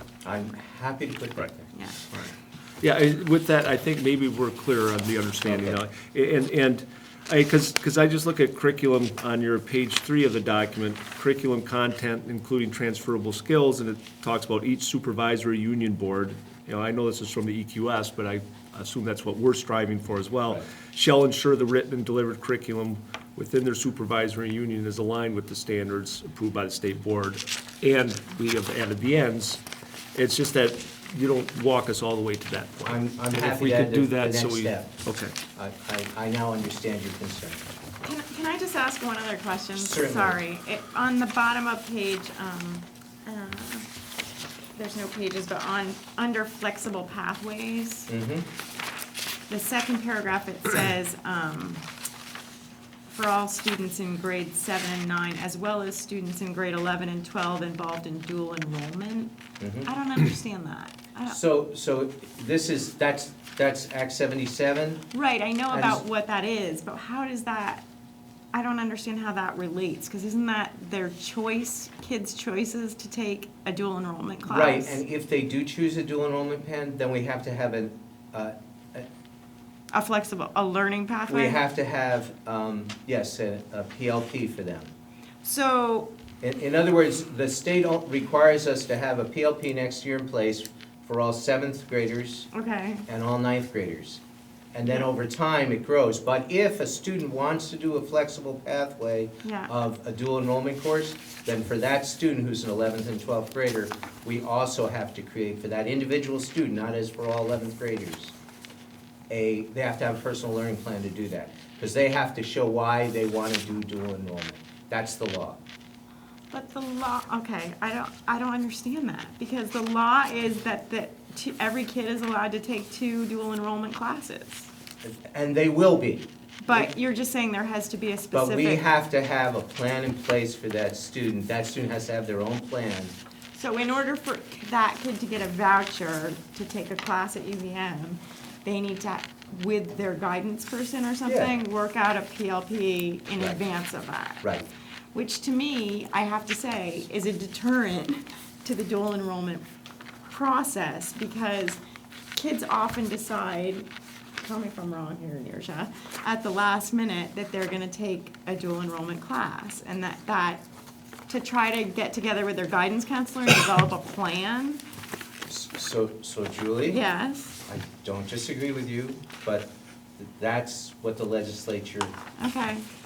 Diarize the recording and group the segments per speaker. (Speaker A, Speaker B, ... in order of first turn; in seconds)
Speaker A: 0.2-1.7, 5.4-5.8, 32.8-34.9, 35.5-37.7, 39.7-40.4, 48.1-48.5, 59.6-59.9, 61.3-65.0, 65.7-66.0, 74.4-79.1, 81.3-84.9, 86.4-92.5, 93.0-94.2, 94.7-108.3, 109.3-115.6, 125.0-126.9, 128.3-133.2, 141.2-141.5, 144.4-144.7, 165.5-167.0, 167.7-172.1
Speaker B: 1.7-2.0, 38.0-43.9, 44.7-48.1, 49.5-51.8, 53.1-61.4, 65.1-67.8, 68.5-75.0, 79.9-81.6, 85.4-86.1, 92.5-93.0, 94.8-95.1, 99.4-99.7, 116.5-124.7, 126.6-128.8, 133.5-144.4, 145.1-149.6, 150.3-151.8, 152.3-153.9, 154.4-160.6, 161.3-164.8, 166.9-167.6, 172.4-172.8
Speaker C: 2.1-29.6, 30.1-35.3